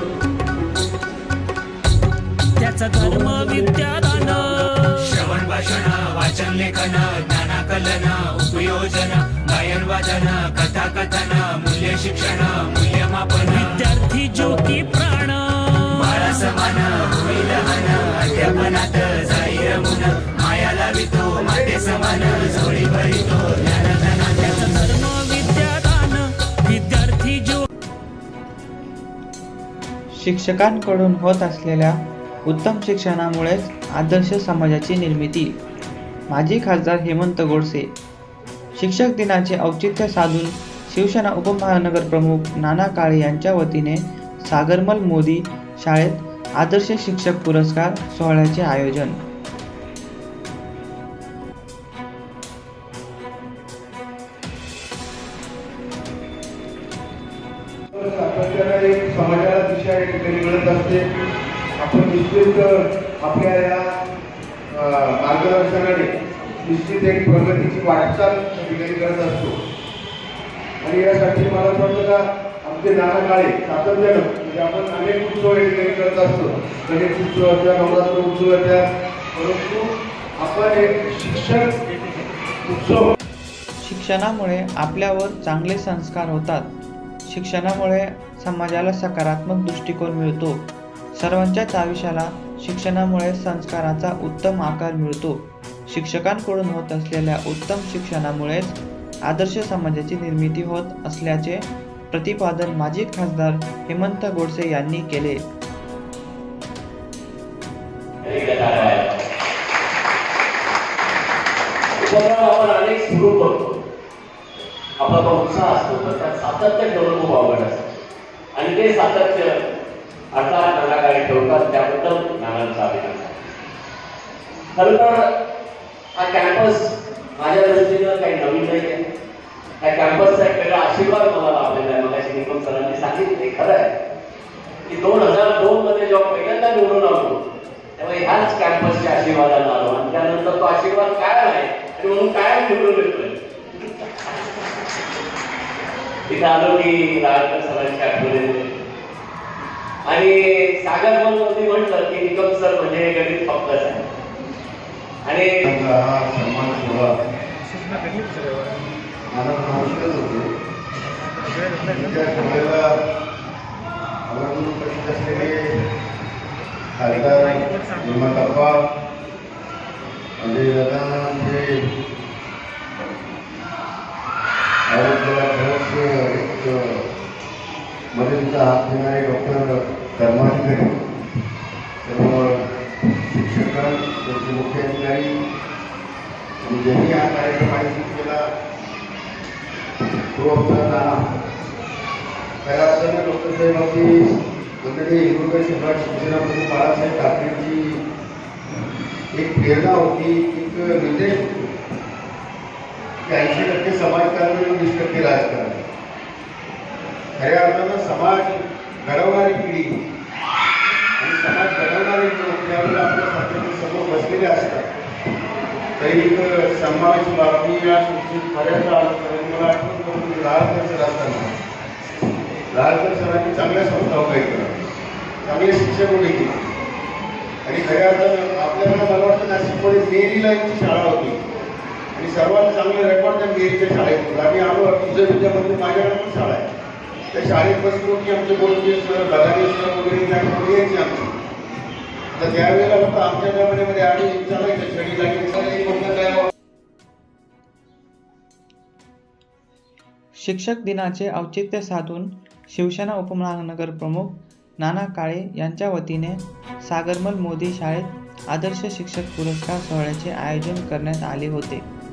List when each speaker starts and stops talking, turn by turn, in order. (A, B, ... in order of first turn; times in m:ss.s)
0:02.6-0:04.8 A
0:05.0-0:13.7 B
0:13.7-0:15.8 A
0:16.0-0:24.4 B
0:24.4-0:27.6 A
0:30.2-0:35.5 C
0:36.3-0:37.9 C
0:38.8-0:49.2 C
0:57.9-1:01.0 D
1:01.8-1:03.9 D
1:04.7-1:06.1 D
1:06.6-1:09.6 D
1:10.8-1:21.9 D
1:22.6-1:23.1 D
1:23.8-1:45.4 C
1:48.2-1:49.2 E
1:52.0-1:53.8 E
1:55.0-1:57.9 E
1:58.6-1:59.7 E
2:00.3-2:03.4 E
2:04.8-2:05.2 E
2:06.2-2:09.0 E
2:09.8-2:13.9 E
2:14.9-2:17.4 E
2:18.0-2:24.4 E
2:26.3-2:28.7 E
2:30.1-2:34.1 E
2:35.3-2:35.6 E
2:35.6-2:37.2 D
2:39.3-2:40.5 D
2:41.8-2:42.9 D
2:44.3-2:45.8 D
2:47.0-2:48.8 D
2:50.4-2:51.7 D
2:54.9-2:57.1 D
2:58.1-3:01.0 D
3:02.0-3:05.4 D
3:06.6-3:08.4 D
3:10.3-3:11.2 D
3:12.6-3:18.0 D
3:19.3-3:21.7 D
3:23.2-3:25.8 D
3:27.4-3:30.0 D
3:31.2-3:34.9 D
3:36.0-3:41.5 D
3:42.7-3:44.7 D
3:45.4-3:46.7 D
3:47.6-3:51.4 D
3:52.1-3:56.7 D
3:57.3-4:01.4 D
4:02.3-4:06.5 D
4:10.4-4:21.9 C